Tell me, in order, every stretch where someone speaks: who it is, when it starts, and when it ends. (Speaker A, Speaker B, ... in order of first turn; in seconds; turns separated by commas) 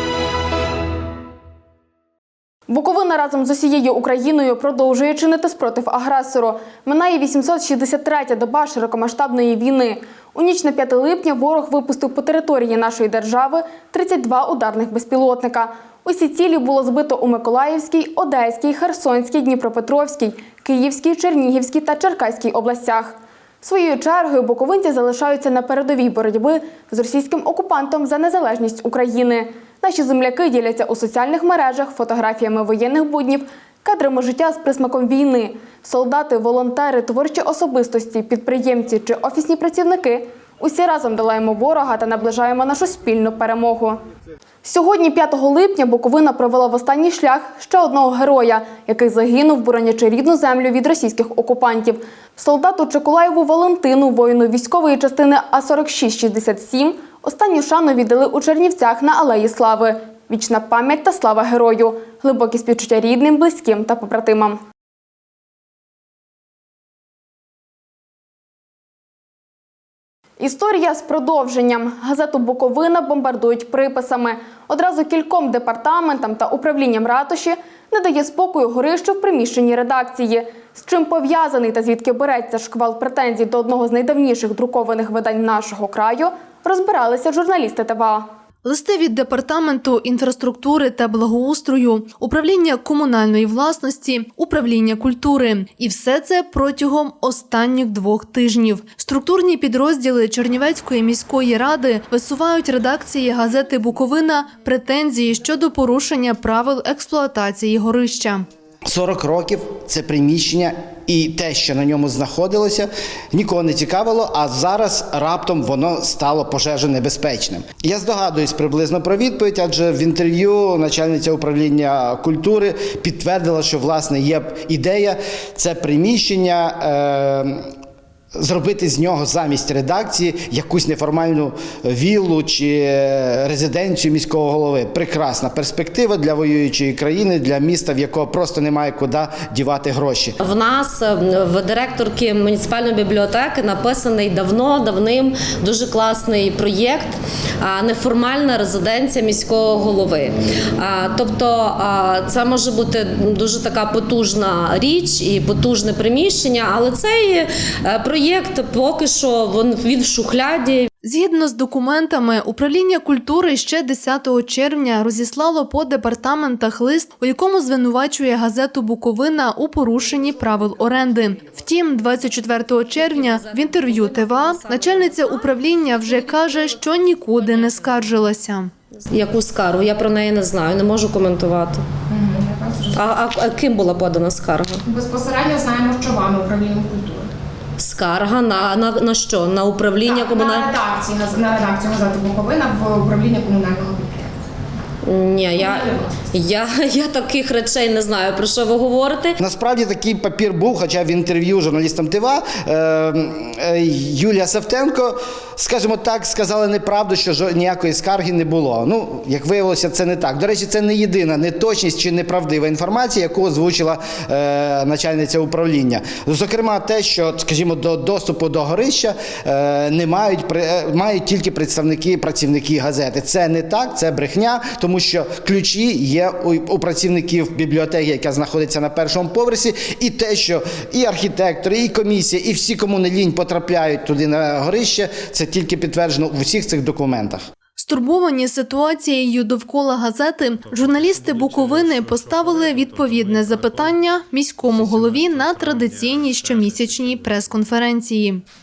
Speaker A: 2.7-44.0, Speaker A: 44.6-64.6, Speaker A: 70.4-88.3, Speaker B: 88.6-108.5, Speaker C: 108.9-127.7, Speaker C: 128.4-140.4, Speaker D: 140.4-160.9, Speaker B: 161.0-178.7, Speaker D: 173.0-175.2, Speaker D: 179.1-181.8, Speaker E: 182.1-183.0, Speaker D: 182.9-184.8, Speaker E: 184.9-187.3, Speaker D: 187.8-190.7, Speaker E: 190.1-194.4, Speaker D: 195.0-199.3, Speaker E: 195.6-196.1, Speaker C: 199.4-237.5, Speaker B: 237.8-248.4